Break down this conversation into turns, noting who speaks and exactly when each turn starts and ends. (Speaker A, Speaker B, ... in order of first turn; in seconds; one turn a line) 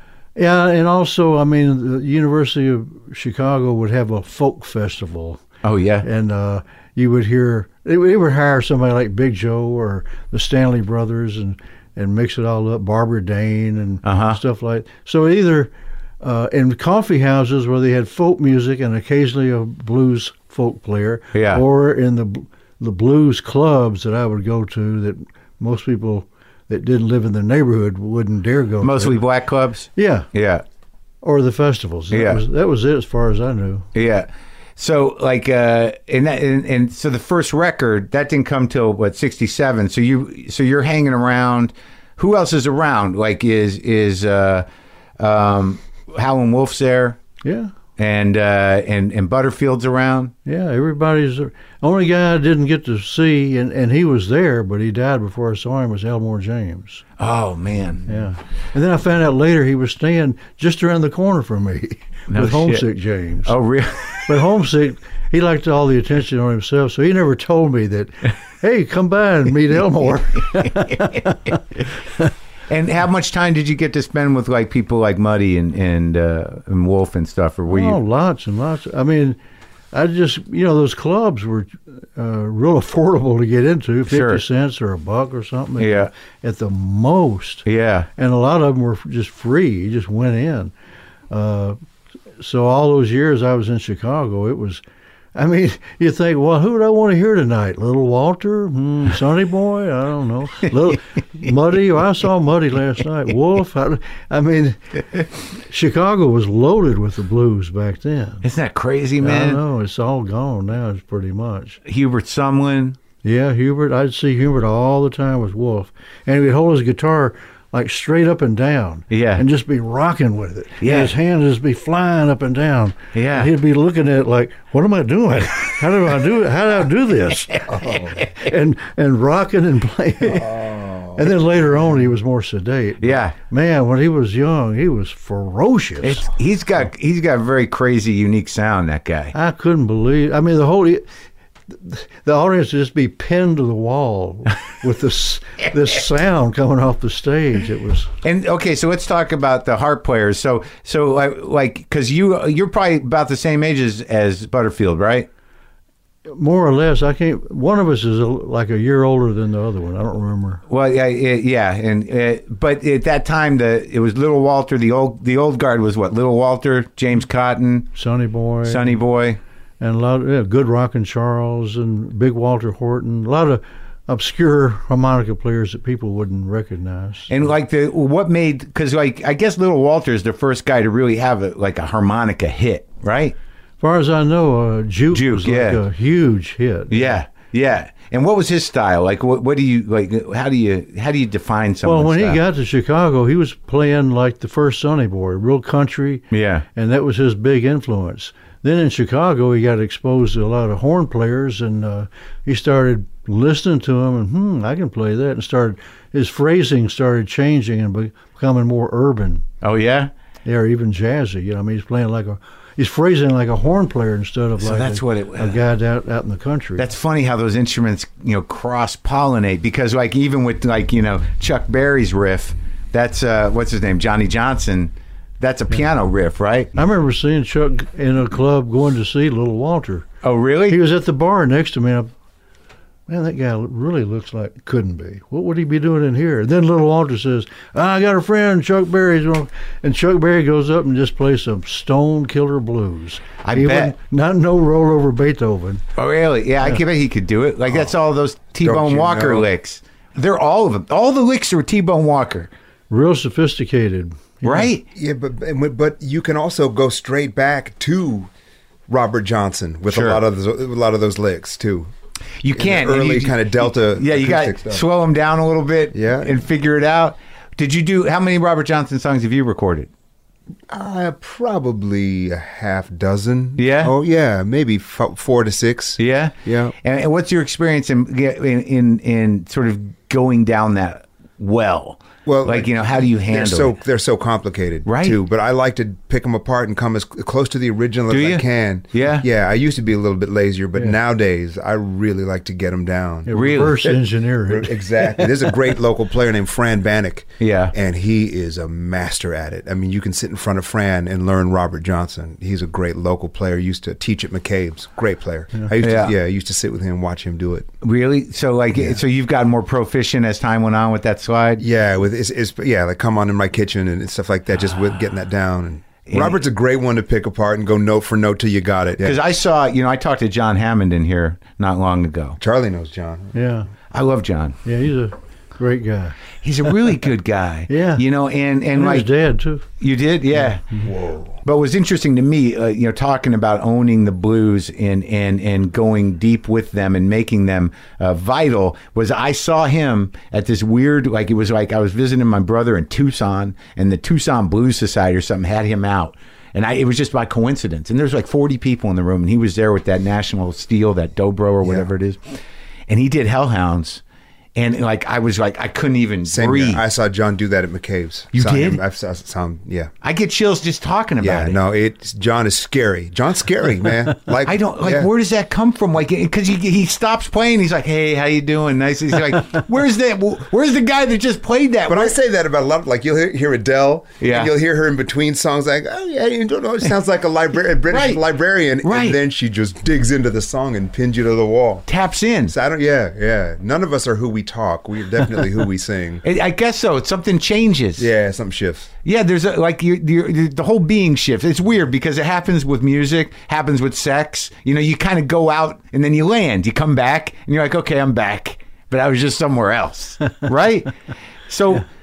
Speaker A: 0.3-5.4
Speaker B: 5.6-6.0
Speaker A: 6.0-15.7
Speaker B: 14.0-14.4
Speaker A: 16.2-29.2
Speaker B: 21.3-21.6
Speaker B: 28.8-30.6
Speaker A: 29.9-30.3
Speaker A: 31.2-33.9
Speaker B: 32.1-32.4
Speaker B: 33.9-44.6
Speaker B: 45.2-47.2
Speaker A: 47.4-47.7
Speaker B: 48.0-50.3
Speaker A: 50.5-57.0
Speaker B: 57.2-58.1
Speaker A: 58.1-63.5
Speaker B: 62.3-62.8
Speaker B: 63.4-64.2
Speaker A: 64.2-71.8
Speaker B: 72.7-78.0
Speaker A: 77.7-79.4
Speaker A: 79.9-90.7
Speaker B: 84.1-84.4
Speaker B: 85.8-86.1
Speaker B: 87.7-88.1
Speaker A: 91.3-91.8
Speaker A: 92.4-94.8
Speaker A: 95.3-108.4
Speaker B: 108.4-109.6
Speaker A: 109.2-111.8
Speaker B: 111.8-113.0
Speaker A: 113.2-136.3
Speaker B: 119.1-119.4
Speaker B: 120.8-121.1
Speaker B: 123.1-123.5
Speaker C: 127.7-128.2
Speaker C: 130.4-131.2
Speaker B: 133.0-133.3
Speaker B: 136.0-139.3
Speaker A: 139.3-141.0
Speaker A: 141.7-148.1
Speaker B: 148.2-155.3
Speaker A: 156.3-160.6
Speaker B: 160.7-167.9
Speaker A: 167.9-169.0
Speaker B: 168.6-169.4
Speaker A: 169.8-177.3
Speaker B: 177.3-183.3
Speaker A: 183.8-187.2
Speaker B: 185.1-185.8
Speaker B: 186.9-192.4
Speaker A: 191.8-209.4
Speaker B: 196.3-196.7
Speaker B: 209.6-210.1
Speaker A: 210.4-216.8
Speaker B: 214.6-215.6
Speaker B: 216.8-226.7
Speaker A: 226.7-230.1
Speaker B: 230.2-230.8
Speaker A: 230.7-232.1
Speaker A: 233.1-245.8
Speaker B: 243.4-243.9
Speaker B: 246.0-252.5
Speaker C: 248.6-249.5
Speaker A: 252.9-254.7
Speaker B: 254.4-254.8
Speaker C: 254.9-258.3
Speaker C: 258.9-261.9
Speaker B: 259.9-260.2
Speaker B: 262.4-269.9
Speaker C: 262.5-264.8
Speaker C: 265.9-266.4
Speaker C: 270.7-276.7
Speaker B: 273.6-273.9
Speaker B: 276.0-283.7
Speaker C: 282.2-293.6
Speaker B: 284.9-285.2
Speaker B: 288.1-289.3
Speaker A: 293.3-294.9
Speaker B: 293.3-293.9
Speaker C: 294.5-307.7
Speaker B: 297.4-297.7
Speaker B: 305.8-306.1
Speaker B: 307.8-311.6
Speaker C: 311.6-319.2
Speaker B: 316.1-316.4
Speaker B: 319.0-322.4
Speaker C: 322.4-323.3
Speaker A: 323.3-323.7
Speaker B: 323.9-324.6
Speaker A: 324.6-326.1
Speaker B: 326.4-329.1
Speaker A: 327.7-328.0
Speaker A: 328.7-329.6
Speaker B: 329.8-330.6
Speaker C: 330.8-331.4
Speaker B: 331.4-352.4
Speaker B: 352.9-354.0
Speaker B: 354.5-356.8
Speaker C: 356.3-359.9
Speaker B: 358.3-358.8
Speaker B: 360.0-361.6
Speaker C: 361.2-365.1
Speaker B: 364.4-372.1
Speaker C: 371.9-381.8
Speaker B: 374.2-374.5
Speaker B: 377.9-378.2
Speaker B: 378.8-379.2
Speaker B: 381.9-382.5
Speaker C: 382.5-386.2
Speaker B: 386.2-388.1
Speaker C: 388.0-388.9
Speaker B: 389.0-400.9
Speaker B: 401.5-401.9